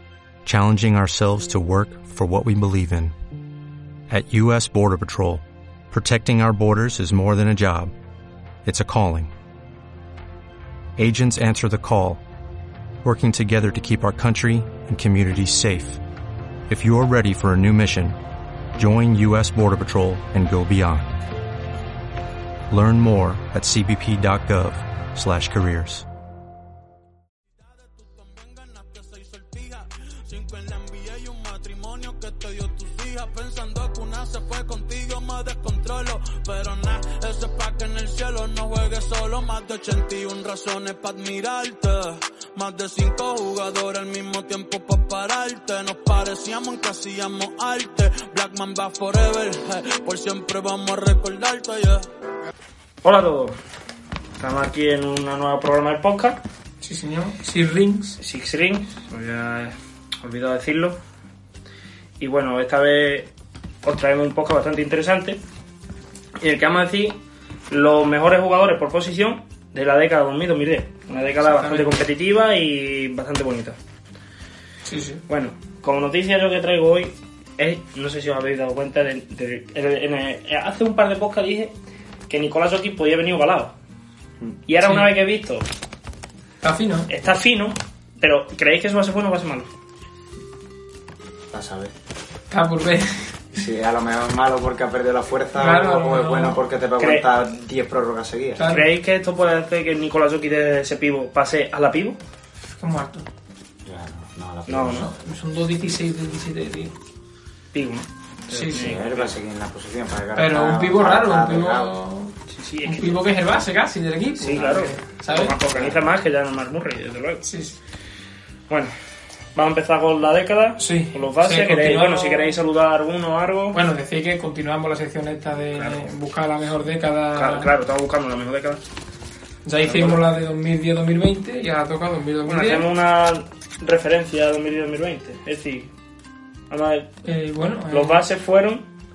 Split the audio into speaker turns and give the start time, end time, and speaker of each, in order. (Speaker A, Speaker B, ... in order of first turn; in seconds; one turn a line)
Speaker A: 0.5-3.1
Speaker A: 4.1-7.9
Speaker A: 8.6-9.3
Speaker A: 11.0-12.2
Speaker A: 13.0-16.0
Speaker A: 16.7-18.2
Speaker A: 18.7-21.1
Speaker A: 22.7-26.0
Speaker B: 27.7-52.1
Speaker C: 53.0-53.6
Speaker C: 54.4-56.4
Speaker D: 56.8-58.2
Speaker C: 58.2-61.0
Speaker C: 62.2-63.3
Speaker C: 63.8-65.4
Speaker C: 66.4-67.2
Speaker C: 67.7-73.8
Speaker D: 71.4-72.0
Speaker D: 74.8-75.2
Speaker C: 75.3-81.7
Speaker C: 82.3-83.7
Speaker C: 84.7-85.7
Speaker D: 84.8-85.1
Speaker D: 86.6-87.1
Speaker C: 87.1-89.7
Speaker E: 91.5-91.9
Speaker D: 92.5-93.4
Speaker E: 93.5-98.6
Speaker D: 95.5-96.6
Speaker C: 97.0-97.3
Speaker D: 98.5-98.9
Speaker C: 98.7-102.2
Speaker D: 102.7-103.3
Speaker E: 103.8-105.1
Speaker C: 104.7-105.1
Speaker D: 104.9-106.9
Speaker C: 107.7-109.3
Speaker D: 108.5-109.0
Speaker E: 108.7-111.9
Speaker D: 110.3-115.6
Speaker C: 112.5-113.3
Speaker C: 114.3-117.5
Speaker E: 115.7-116.0
Speaker D: 117.4-117.8
Speaker C: 119.5-123.8
Speaker D: 120.8-122.6
Speaker D: 123.7-127.7
Speaker C: 125.7-126.1
Speaker C: 127.3-128.8
Speaker D: 129.6-132.9
Speaker C: 129.8-130.2
Speaker C: 132.4-135.9
Speaker C: 136.7-137.1
Speaker D: 137.2-138.2
Speaker C: 137.9-138.8